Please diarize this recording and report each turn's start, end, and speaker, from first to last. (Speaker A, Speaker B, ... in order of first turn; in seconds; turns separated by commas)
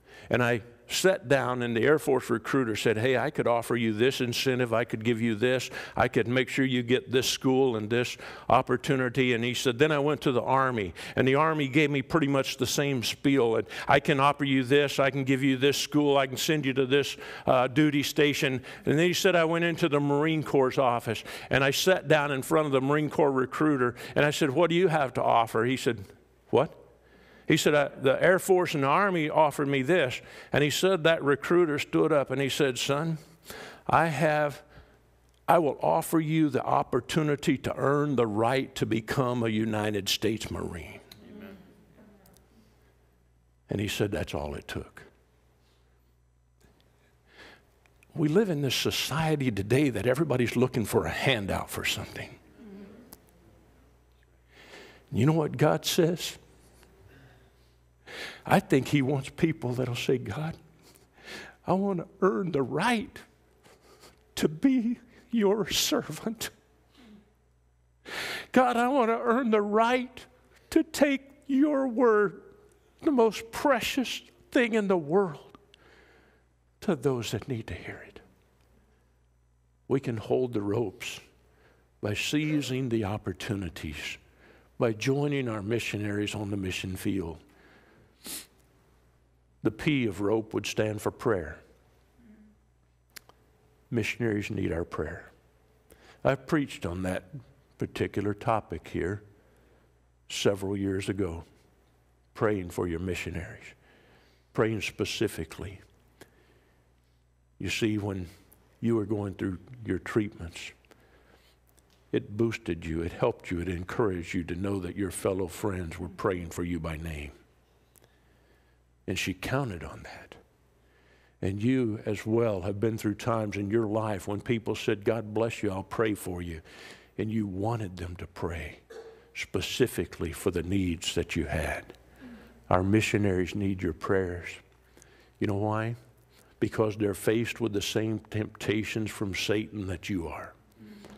Speaker A: 0.3-26.8, Speaker A: 27.5-33.2, Speaker A: 33.9-34.6, Speaker A: 35.5-41.0, Speaker A: 43.7-45.1, Speaker A: 48.1-52.4, Speaker A: 55.1-56.4, Speaker A: 58.5-60.6, Speaker A: 61.6-63.2, Speaker A: 64.3-66.5, Speaker A: 68.1-72.5, Speaker A: 73.0-75.6, Speaker A: 76.8-78.2, Speaker A: 79.9-81.2, Speaker A: 82.0-84.2, Speaker A: 84.8-87.4, Speaker A: 89.6-91.6, Speaker A: 93.9-95.3, Speaker A: 96.2-99.2, Speaker A: 100.3-101.5, Speaker A: 102.3-103.8, Speaker A: 104.5-105.8, Speaker A: 107.6-108.3, Speaker A: 108.8-110.7, Speaker A: 112.1-117.3, Speaker A: 119.1-120.4, Speaker A: 121.4-126.6, Speaker A: 127.2-128.8, Speaker A: 129.3-131.9, Speaker A: 132.7-134.6, Speaker A: 135.4-136.0, Speaker A: 136.6-140.6